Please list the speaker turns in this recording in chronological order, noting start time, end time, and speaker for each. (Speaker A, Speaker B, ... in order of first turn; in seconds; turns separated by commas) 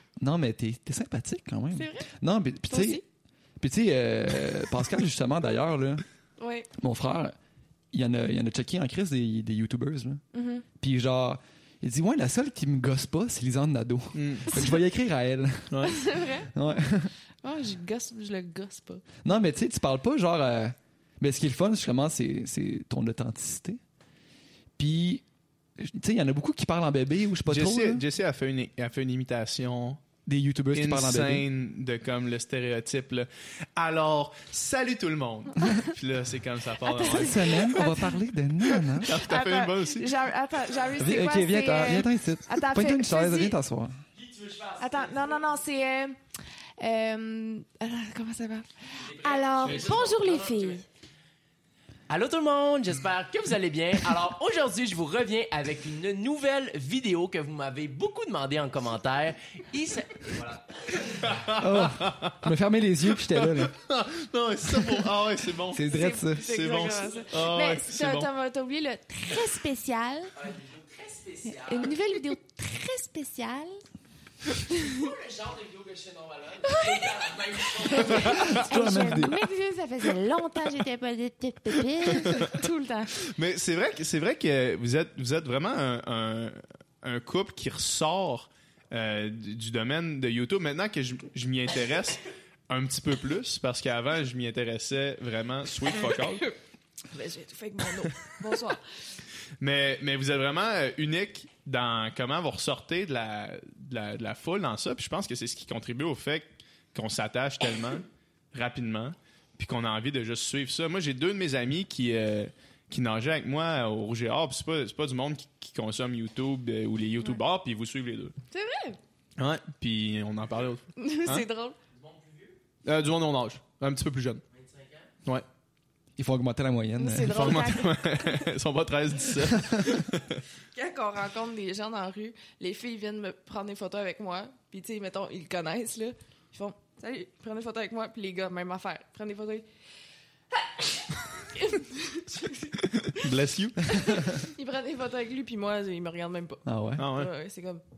Speaker A: 0.2-3.0, Speaker B: 1.7-2.1, Speaker B: 2.7-3.0, Speaker A: 3.6-6.0, Speaker B: 6.4-6.7, Speaker A: 6.7-7.3, Speaker A: 7.9-10.2, Speaker B: 10.3-10.6, Speaker A: 10.8-15.9, Speaker C: 14.1-14.5, Speaker C: 15.7-16.0, Speaker B: 15.8-16.5, Speaker A: 16.5-17.1, Speaker B: 17.4-19.1, Speaker A: 19.2-23.8, Speaker A: 24.8-25.2, Speaker A: 25.8-28.0, Speaker C: 27.5-30.0, Speaker A: 30.2-31.4, Speaker C: 30.7-37.6, Speaker B: 36.8-43.6, Speaker A: 37.0-39.1, Speaker C: 39.0-40.1, Speaker A: 41.0-44.0, Speaker D: 44.2-45.1, Speaker B: 44.8-46.2, Speaker B: 46.8-50.9, Speaker D: 49.0-50.8, Speaker D: 52.1-61.5, Speaker C: 61.3-62.5, Speaker A: 61.5-63.7, Speaker C: 63.3-68.3, Speaker A: 65.7-66.5, Speaker B: 65.8-70.3, Speaker D: 70.4-72.0, Speaker B: 71.4-73.8, Speaker B: 74.7-75.0, Speaker D: 74.7-78.7, Speaker B: 76.6-83.2, Speaker A: 78.5-79.4, Speaker C: 82.1-82.6, Speaker C: 83.2-96.5, Speaker B: 96.0-96.5, Speaker B: 97.1-98.8, Speaker C: 99.6-118.3, Speaker B: 118.5-119.0, Speaker C: 119.4-121.4, Speaker B: 121.0-121.8, Speaker D: 121.9-122.6, Speaker C: 122.8-124.4, Speaker D: 124.5-125.1, Speaker A: 126.2-127.6, Speaker B: 127.0-128.4, Speaker C: 127.3-130.4, Speaker B: 130.7-139.7, Speaker B: 140.5-143.3, Speaker C: 143.0-143.9, Speaker B: 143.8-147.8, Speaker A: 146.7-147.1, Speaker C: 147.0-147.3